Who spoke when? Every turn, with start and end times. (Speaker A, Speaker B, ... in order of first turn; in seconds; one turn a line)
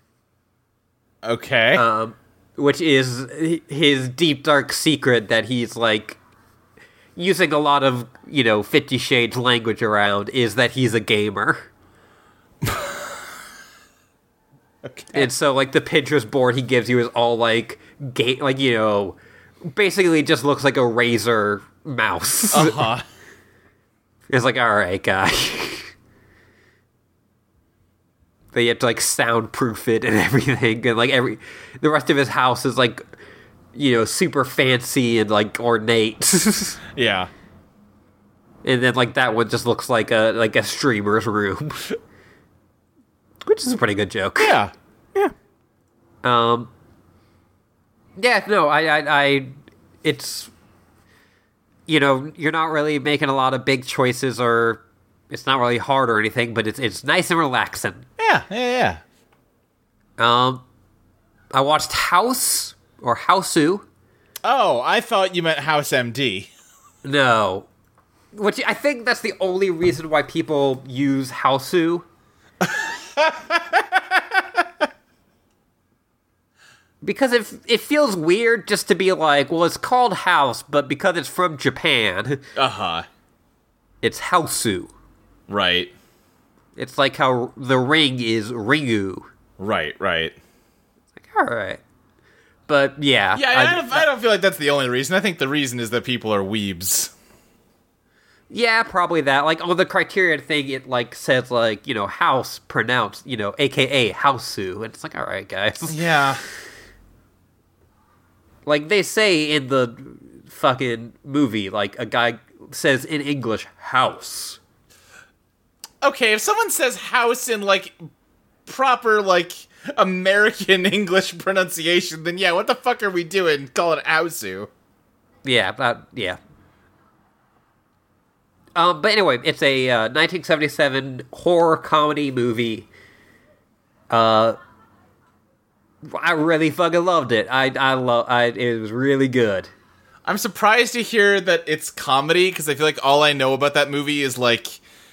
Speaker A: 1.2-1.8
Speaker B: 1.8-6.2
Speaker B: 7.2-11.7
Speaker A: 12.6-13.0
Speaker A: 14.8-15.3
Speaker B: 15.1-22.9
Speaker A: 22.5-23.1
Speaker B: 24.3-25.9
Speaker B: 28.5-33.0
Speaker B: 33.7-36.8
Speaker A: 37.0-37.3
Speaker B: 38.6-41.9
Speaker B: 43.5-44.6
Speaker A: 44.4-44.7
Speaker B: 46.2-46.7
Speaker B: 48.2-50.5
Speaker B: 51.9-58.1
Speaker A: 58.2-59.0
Speaker B: 60.2-60.6
Speaker B: 61.5-63.9
Speaker A: 64.4-66.5
Speaker B: 67.0-67.7
Speaker B: 68.3-72.1
Speaker A: 72.6-74.7
Speaker B: 77.0-82.4
Speaker A: 82.6-83.1
Speaker B: 84.0-84.9
Speaker A: 85.5-85.9
Speaker B: 86.8-89.3
Speaker A: 89.6-90.4
Speaker B: 91.3-91.8
Speaker B: 92.7-94.1
Speaker A: 93.3-97.1
Speaker B: 98.5-106.0
Speaker A: 105.9-106.4
Speaker B: 108.7-114.6
Speaker A: 116.0-118.0
Speaker A: 118.7-124.7
Speaker B: 125.4-126.4
Speaker B: 128.8-132.9
Speaker B: 134.1-134.6
Speaker B: 136.1-139.7
Speaker A: 140.2-144.8